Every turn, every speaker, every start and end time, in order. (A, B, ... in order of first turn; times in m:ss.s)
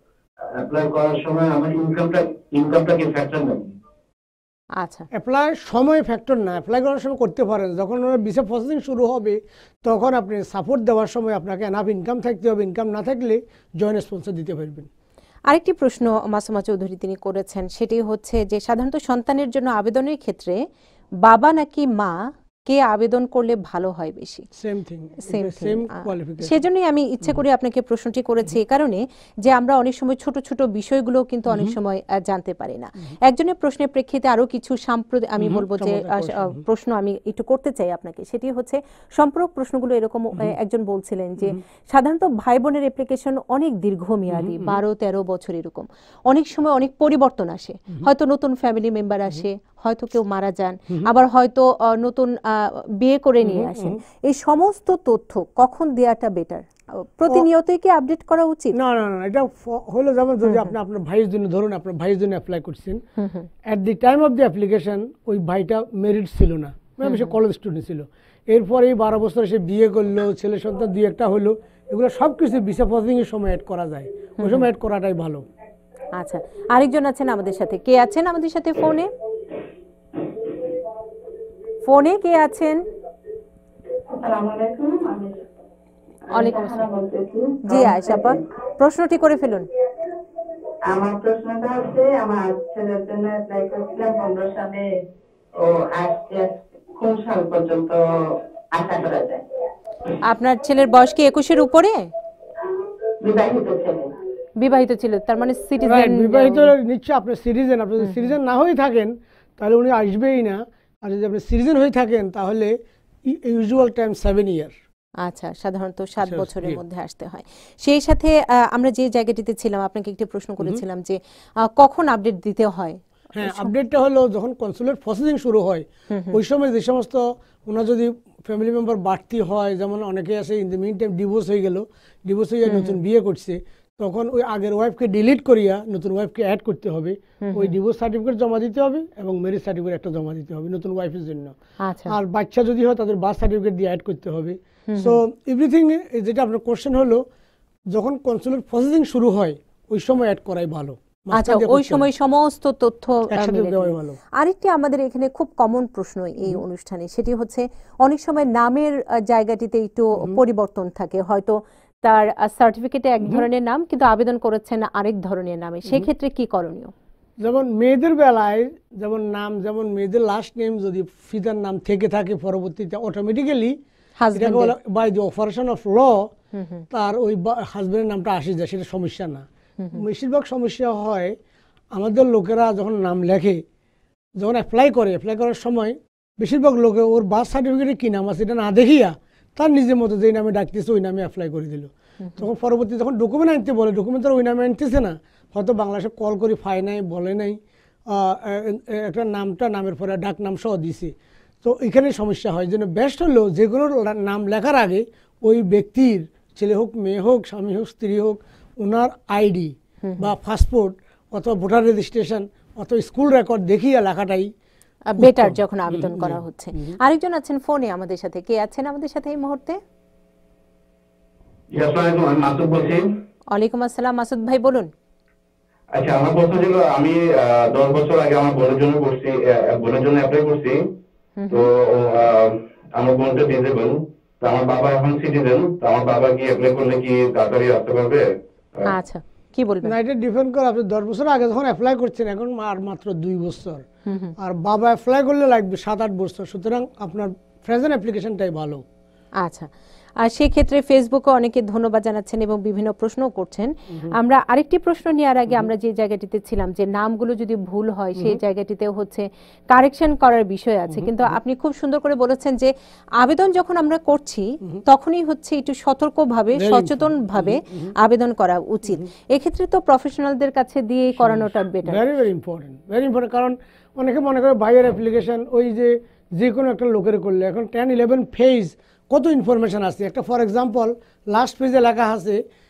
0:00.4-0:03.7 A
0:04.8-0:05.1 B
0:05.1-0:14.9 C
0:15.5-0:20.6 B
0:21.2-0:24.4 B
0:24.5-0:26.7 C
0:25.3-0:58.8 B
0:31.5-0:31.8 C
0:35.4-0:36.6 C
0:44.3-0:44.8 C
0:53.4-0:54.0 C
0:58.7-1:03.0 C
1:00.4-1:00.7 B
1:03.2-1:03.5 B
1:03.7-1:15.5 C
1:07.0-1:07.4 B
1:14.4-1:14.7 B
1:16.2-1:19.1 B
1:21.8-1:22.8 B
1:24.2-1:25.3 D
1:26.3-1:26.8 B
1:26.4-1:28.4 D
1:27.7-1:29.7 B
1:30.9-1:34.9 D
1:35.6-1:38.0 D
1:38.7-1:39.4 D
1:40.3-1:42.1 B
1:43.2-1:44.1 D
1:44.6-1:46.7 B
1:45.8-1:52.7 C
1:48.0-1:48.3 B
1:53.3-1:54.8 C
1:55.2-2:03.7 B
1:56.2-1:56.8 C
2:03.4-2:21.6 C
2:06.1-2:06.4 B
2:12.7-2:13.0 B
2:17.4-2:17.8 B
2:21.8-2:22.1 B
2:22.1-2:27.2 C
2:24.9-2:25.2 B
2:27.9-2:32.1 C
2:31.3-2:46.9 B
2:33.3-2:34.2 C
2:40.2-2:40.4 C
2:47.4-2:53.8 C
2:54.2-2:54.7 B
2:54.4-2:56.3 C
2:56.5-2:56.8 B
2:56.9-3:01.4 C
3:01.9-3:03.6 C
3:04.4-3:34.5 C
3:30.0-3:30.3 B
3:35.1-3:39.8 B
3:35.2-3:37.0 C
3:41.7-3:43.0 E
3:43.5-3:44.9 B
3:45.9-3:50.9 E
3:51.4-3:51.7 B
3:51.5-3:58.2 E
3:58.9-3:59.9 B
3:59.8-4:03.8 C
4:04.1-4:04.3 B
4:04.4-4:08.8 C
4:09.4-4:32.0 B
4:20.9-4:21.4 C
4:26.6-4:27.9 C
4:31.2-4:42.4 C